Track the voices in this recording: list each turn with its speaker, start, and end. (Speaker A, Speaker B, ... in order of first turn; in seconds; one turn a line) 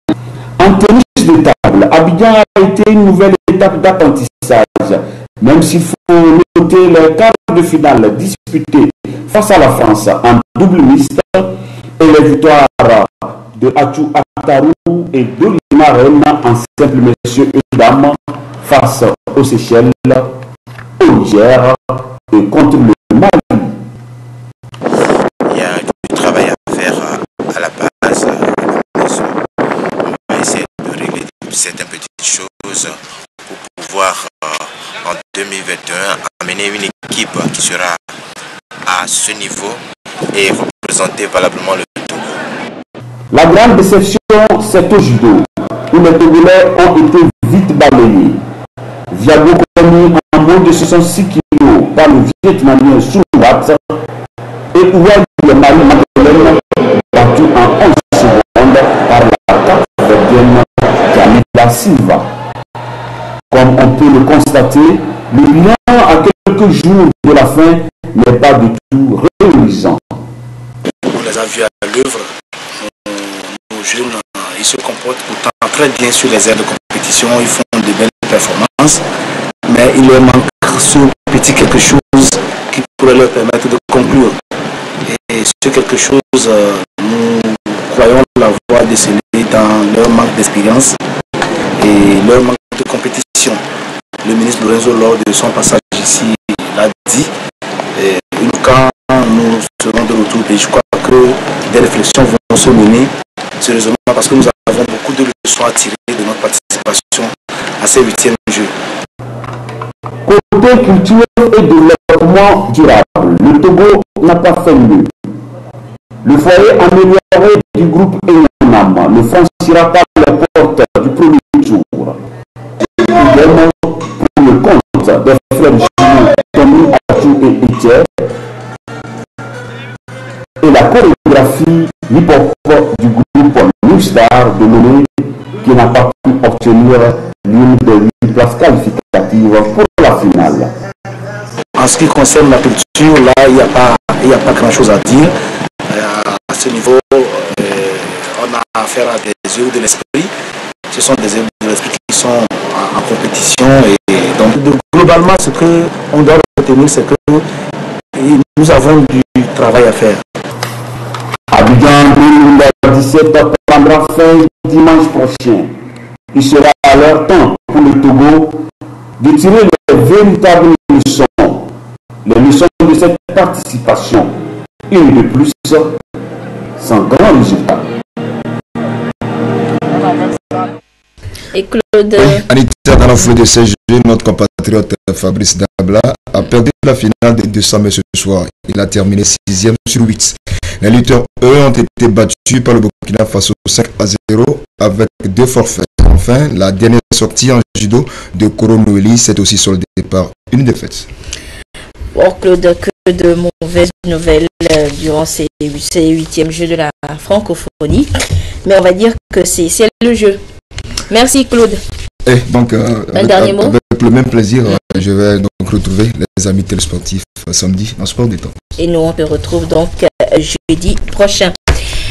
Speaker A: 0.6-20.3
Speaker A: 21.0-23.8
Speaker B: 25.5-29.3
Speaker B: 30.1-32.9
Speaker B: 33.5-38.0
Speaker B: 38.9-39.8
Speaker B: 40.3-42.3
Speaker A: 43.3-48.4
Speaker A: 49.1-54.0
Speaker A: 54.7-62.3
Speaker A: 63.5-70.0
Speaker C: 71.1-72.3
Speaker C: 73.0-79.0
Speaker C: 79.7-84.3
Speaker C: 85.1-91.0
Speaker C: 91.8-93.6
Speaker C: 94.2-97.3
Speaker C: 98.0-108.7
Speaker A: 110.2-115.1
Speaker A: 116.2-122.2
Speaker A: 123.0-128.3
Speaker A: 130.6-140.7
Speaker C: 141.8-145.3
Speaker C: 145.9-150.3
Speaker C: 150.9-157.4
Speaker C: 158.2-160.2
Speaker A: 161.5-165.7
Speaker A: 166.3-168.6
Speaker A: 169.2-171.7
Speaker A: 172.2-174.4
Speaker A: 174.9-176.0
Speaker A: 176.8-177.9
Speaker D: 181.5-182.4
Speaker E: 182.2-201.1
Speaker D: 202.1-208.1
Speaker D: 208.6-210.4
Speaker D: 211.1-211.8
Speaker E: 212.2-218.5
Speaker D: 213.1-213.8
Speaker D: 218.8-221.5